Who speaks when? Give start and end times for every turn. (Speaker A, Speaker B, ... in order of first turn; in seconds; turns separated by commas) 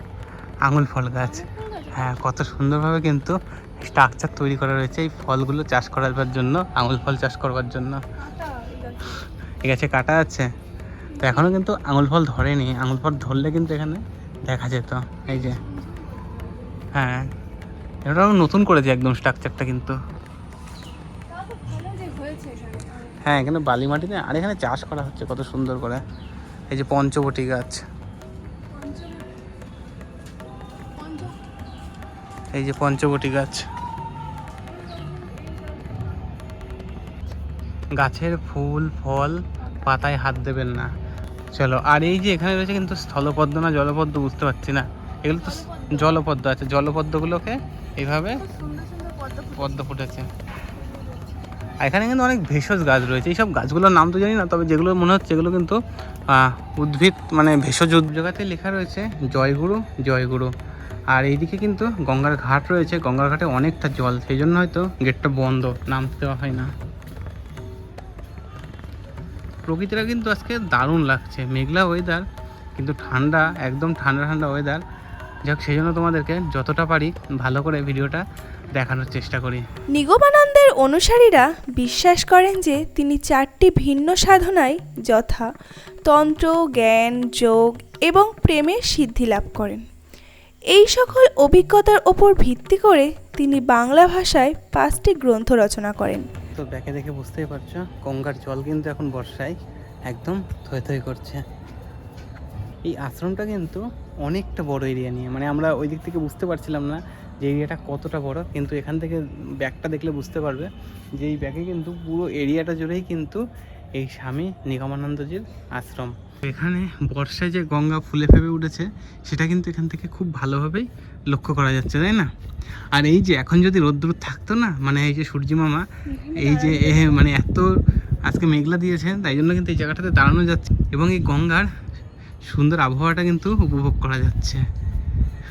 Speaker A: 0.7-8.0, Speaker B: 1.2-2.2, Speaker B: 8.2-9.3, Speaker A: 9.6-10.5, Speaker B: 11.1-11.6, Speaker A: 11.2-15.6, Speaker B: 15.3-16.9, Speaker A: 16.9-17.3, Speaker A: 18.1-20.0, Speaker B: 21.3-23.2, Speaker A: 23.2-26.0, Speaker A: 26.7-27.9, Speaker B: 28.7-29.4, Speaker B: 30.9-31.4, Speaker A: 32.5-33.7, Speaker B: 34.7-36.3, Speaker A: 38.0-40.9, Speaker A: 41.5-48.4, Speaker B: 45.4-46.2, Speaker B: 48.4-49.9, Speaker A: 49.5-50.3, Speaker B: 50.7-51.7, Speaker A: 51.8-60.5, Speaker A: 61.1-66.7, Speaker A: 69.7-72.2, Speaker A: 72.8-74.8, Speaker B: 73.1-73.6, Speaker A: 75.5-79.7, Speaker B: 79.9-85.5, Speaker B: 86.1-89.8, Speaker B: 90.7-96.3, Speaker A: 96.6-101.4, Speaker A: 102.8-113.4, Speaker A: 114.0-122.3, Speaker A: 122.9-125.8, Speaker B: 126.1-127.2, Speaker A: 126.4-127.7, Speaker A: 128.3-131.7, Speaker A: 132.4-134.7